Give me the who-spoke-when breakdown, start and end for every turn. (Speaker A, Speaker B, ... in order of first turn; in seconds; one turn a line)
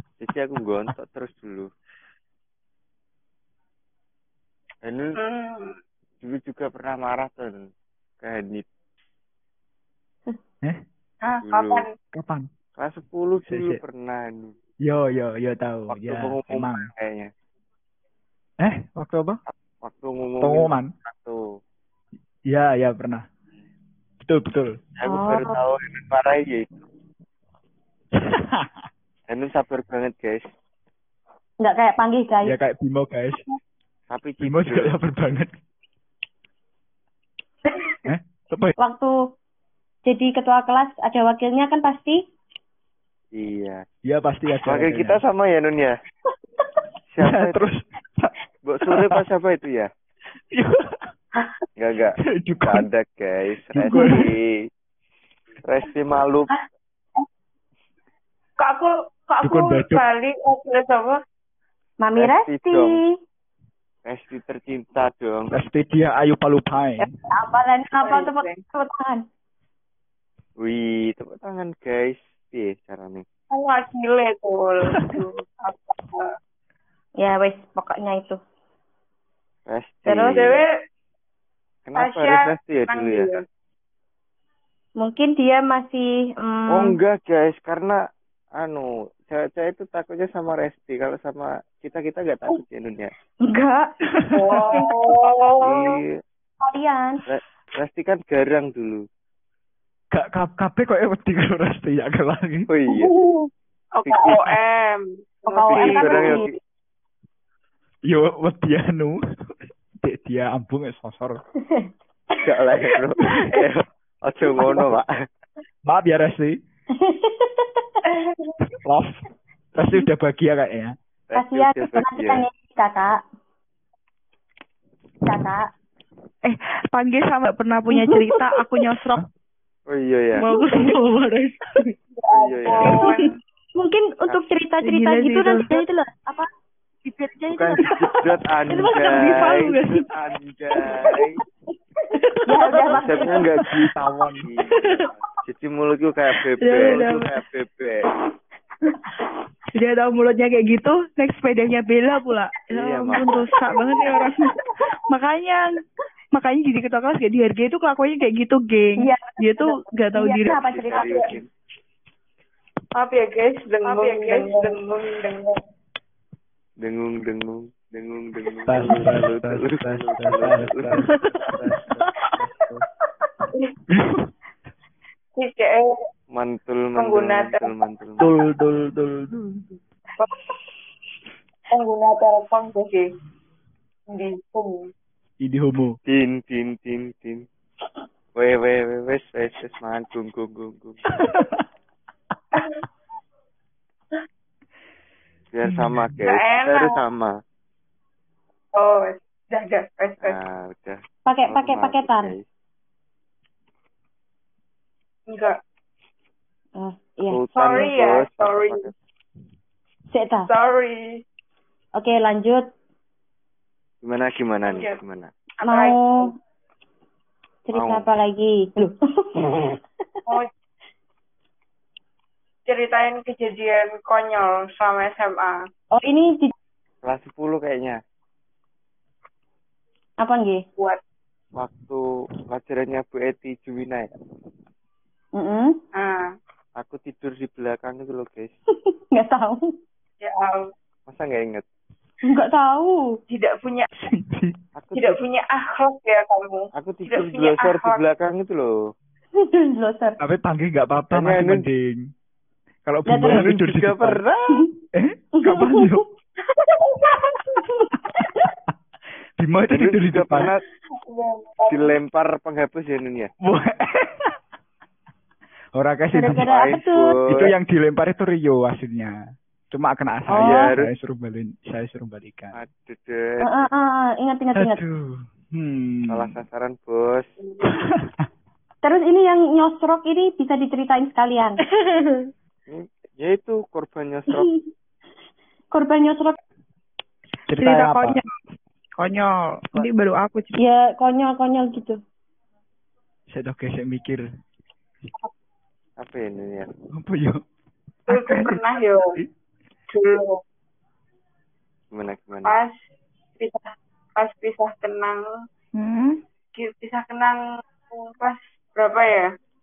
Speaker A: 0.2-1.7
Speaker A: 4.8-5.2
Speaker B: 5.2-5.8
Speaker A: 6.2-7.7
Speaker A: 8.2-8.6
Speaker B: 11.2-11.9
Speaker A: 11.4-11.8
Speaker C: 12.1-12.5
Speaker A: 12.8-14.5
Speaker C: 13.4-13.8
Speaker C: 14.8-16.9
Speaker A: 15.9-17.3
Speaker C: 18.6-19.4
Speaker A: 19.5-21.4
Speaker C: 20.4-20.9
Speaker C: 22.5-23.2
Speaker C: 24.2-24.8
Speaker A: 25.0-26.8
Speaker D: 25.0-25.6
Speaker C: 28.2-28.7
Speaker A: 29.3-30.4
Speaker D: 31.6-32.5
Speaker C: 32.4-33.4
Speaker A: 34.1-35.0
Speaker C: 34.4-35.5
Speaker C: 38.0-38.7
Speaker D: 38.8-39.1
Speaker D: 40.0-42.2
Speaker A: 43.3-43.8
Speaker C: 44.0-45.2
Speaker A: 44.6-46.0
Speaker A: 47.1-47.6
Speaker C: 47.2-48.3
Speaker A: 48.6-49.9
Speaker C: 48.8-49.2
Speaker C: 50.5-51.1
Speaker A: 51.8-54.5
Speaker C: 52.3-52.9
Speaker C: 53.7-54.3
Speaker A: 55.6-56.5
Speaker B: 58.6-61.2
Speaker C: 59.4-60.0
Speaker D: 62.0-63.0
Speaker A: 62.1-63.0
Speaker A: 64.0-65.5
Speaker C: 65.5-67.0
Speaker D: 67.3-69.2
Speaker B: 68.0-68.6
Speaker A: 70.6-73.2
Speaker B: 73.5-76.3
Speaker D: 77.2-78.4
Speaker A: 79.7-80.5
Speaker D: 80.0-80.6
Speaker B: 80.3-80.7
Speaker A: 81.8-83.3
Speaker B: 82.0-83.4
Speaker D: 85.0-87.0
Speaker A: 86.7-88.0
Speaker A: 88.5-93.1
Speaker D: 93.4-93.9
Speaker B: 94.3-96.0
Speaker D: 94.5-95.1
Speaker A: 95.6-96.1
Speaker D: 96.6-97.2
Speaker A: 97.3-99.0
Speaker C: 100.1-102.7
Speaker A: 102.7-103.1
Speaker B: 103.9-106.5
Speaker A: 104.0-104.5
Speaker D: 105.5-106.5
Speaker A: 105.7-106.5
Speaker C: 108.1-109.2
Speaker C: 110.0-111.4
Speaker D: 111.6-111.9
Speaker A: 112.4-115.1
Speaker C: 115.8-116.6
Speaker D: 116.9-117.9
Speaker B: 118.0-118.3
Speaker C: 118.8-119.2
Speaker C: 119.7-120.9
Speaker A: 121.3-122.4
Speaker D: 121.3-123.2
Speaker D: 125.2-125.7
Speaker E: 126.4-129.2
Speaker A: 129.9-130.5
Speaker E: 130.3-131.9
Speaker D: 130.6-130.9
Speaker A: 132.3-133.0
Speaker B: 132.4-133.4
Speaker D: 132.7-133.1
Speaker E: 132.9-133.2
Speaker D: 133.7-136.5
Speaker E: 134.8-135.8
Speaker E: 137.1-140.1
Speaker A: 137.5-141.4
Speaker E: 140.8-141.2
Speaker E: 142.1-143.1
Speaker D: 142.4-143.4
Speaker A: 142.8-148.1
Speaker C: 143.6-144.5
Speaker E: 144.8-145.1
Speaker E: 146.6-147.4
Speaker E: 149.7-154.5
Speaker A: 152.7-153.5
Speaker E: 155.1-155.6
Speaker E: 156.3-161.0
Speaker D: 159.0-161.4
Speaker A: 160.5-161.5
Speaker B: 162.9-165.6
Speaker D: 163.8-164.7
Speaker A: 166.8-172.3
Speaker C: 168.7-171.7
Speaker E: 171.1-171.5
Speaker C: 173.9-174.3
Speaker B: 175.3-176.0
Speaker A: 176.3-178.3
Speaker B: 176.9-177.8
Speaker C: 178.2-179.5
Speaker B: 180.2-180.5
Speaker B: 181.7-183.1
Speaker B: 184.1-184.9
Speaker C: 185.4-186.0
Speaker A: 186.1-187.4
Speaker A: 188.3-191.0
Speaker C: 191.2-191.6
Speaker A: 195.5-197.3
Speaker C: 195.7-196.1
Speaker B: 196.2-197.0
Speaker B: 198.7-200.4
Speaker A: 200.2-202.4
Speaker D: 201.2-202.3
Speaker B: 205.3-205.6
Speaker D: 206.8-207.4
Speaker A: 207.3-208.9
Speaker B: 207.5-208.9
Speaker D: 210.1-210.5
Speaker B: 210.5-211.0
Speaker D: 212.0-212.7
Speaker A: 214.0-215.3
Speaker B: 214.6-215.0
Speaker B: 215.6-216.3
Speaker D: 215.7-216.3
Speaker D: 217.7-219.8
Speaker A: 217.7-218.1
Speaker B: 222.7-225.6
Speaker D: 225.9-226.5
Speaker A: 227.0-228.0
Speaker D: 230.2-230.6
Speaker A: 231.6-234.1
Speaker D: 235.4-235.8
Speaker B: 235.9-236.3
Speaker A: 236.8-238.5
Speaker D: 238.9-239.7
Speaker B: 240.2-240.7
Speaker A: 241.1-241.6
Speaker D: 242.2-243.0
Speaker B: 243.3-243.8
Speaker C: 244.0-244.6
Speaker A: 244.8-245.2
Speaker B: 244.9-248.0
Speaker A: 246.7-248.7
Speaker D: 249.4-250.2
Speaker C: 250.2-252.0
Speaker A: 251.1-251.7
Speaker C: 252.8-254.2
Speaker D: 253.1-253.5
Speaker A: 253.2-254.5
Speaker C: 254.9-256.0
Speaker D: 255.4-255.9
Speaker D: 257.8-258.2
Speaker C: 259.4-260.5
Speaker A: 259.7-260.6
Speaker B: 261.1-261.9
Speaker A: 261.7-263.3
Speaker C: 263.4-264.3
Speaker C: 265.7-266.5
Speaker D: 266.1-267.2
Speaker A: 266.4-267.5
Speaker C: 267.3-269.2
Speaker C: 269.7-272.6
Speaker D: 270.3-270.7
Speaker A: 270.4-270.9
Speaker A: 272.5-273.7
Speaker D: 273.4-274.8
Speaker C: 274.5-276.4
Speaker A: 276.1-277.3
Speaker B: 277.4-277.7
Speaker D: 278.8-281.6
Speaker E: 281.7-282.3
Speaker A: 282.7-284.5
Speaker D: 285.7-286.4
Speaker C: 287.5-288.2
Speaker E: 287.6-288.3
Speaker E: 289.0-290.6
Speaker D: 290.5-292.0
Speaker C: 293.3-294.2
Speaker A: 296.0-296.7
Speaker C: 296.9-297.4
Speaker B: 298.1-299.2
Speaker C: 298.1-298.6
Speaker B: 299.9-300.4
Speaker A: 301.9-302.6
Speaker B: 302.4-302.8
Speaker B: 303.4-305.3
Speaker E: 305.8-306.2
Speaker B: 306.5-307.4
Speaker B: 307.9-309.3